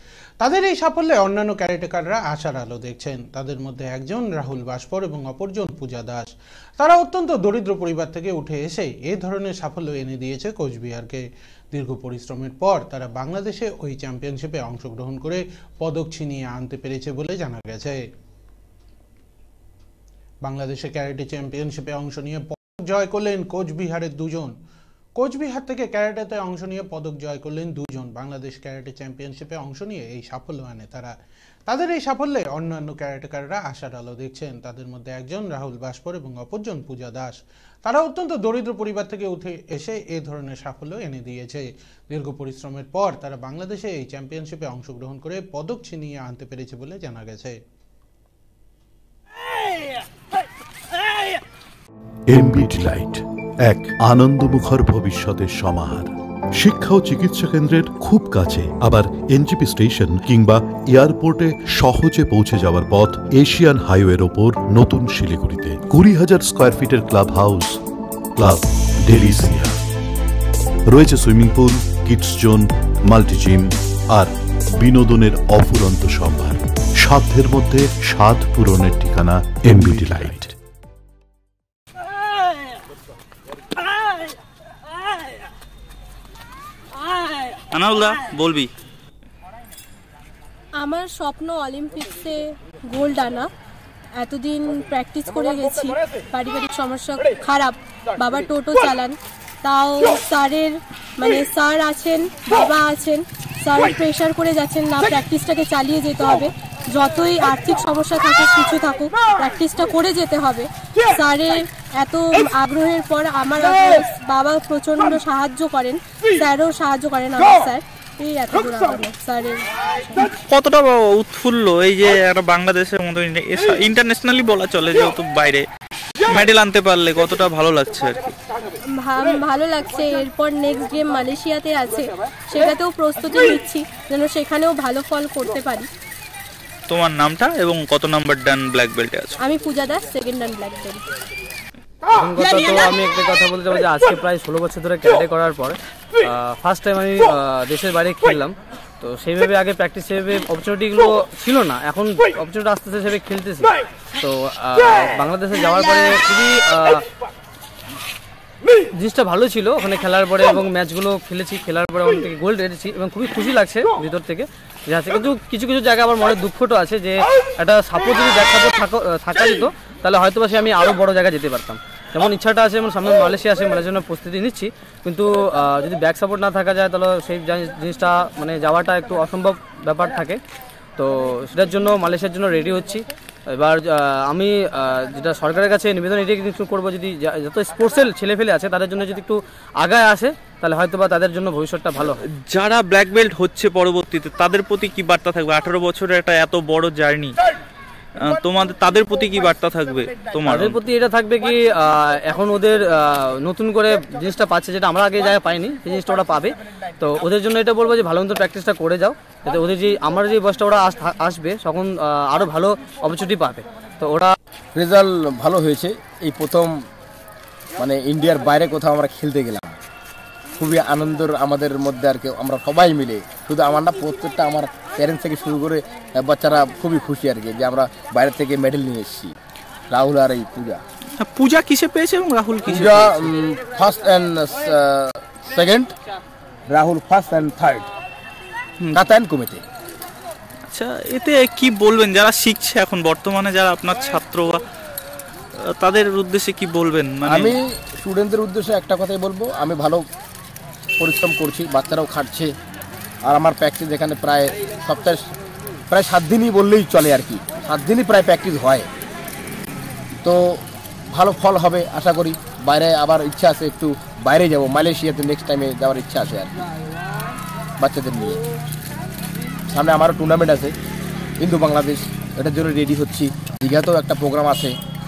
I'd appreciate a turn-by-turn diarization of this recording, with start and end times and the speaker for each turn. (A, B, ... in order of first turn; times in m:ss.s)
0:00.4-0:18.0 A
0:20.4-0:24.5 A
0:25.2-0:31.1 A
0:31.7-0:47.6 A
0:52.3-1:07.8 B
1:08.4-1:09.8 B
1:10.9-1:20.5 B
1:27.7-1:28.7 C
1:30.8-1:33.5 D
1:34.2-2:00.4 D
2:00.5-2:05.7 C
2:06.2-2:08.3 C
2:08.9-2:15.9 D
2:16.9-2:19.4 C
2:19.4-2:21.0 D
2:22.1-2:37.0 E
2:39.0-3:00.4 E
3:01.0-3:12.2 E
3:12.2-3:17.4 C
3:18.2-3:20.8 C
3:20.4-3:34.3 E
3:34.7-3:36.8 F
3:37.8-3:39.8 F
3:40.6-3:49.3 F
3:49.9-3:50.8 F
3:51.2-3:53.3 C
3:52.7-3:55.9 F
3:56.7-3:57.9 F
3:58.9-3:59.6 F
4:00.7-4:04.6 C
4:05.5-4:07.6 C
4:07.2-4:10.0 F
4:11.0-4:12.5 F
4:13.2-4:15.3 F
4:15.9-4:18.9 F
4:20.2-4:26.6 F
4:27.8-4:28.4 F
4:29.7-4:30.7 F
4:31.4-4:34.7 F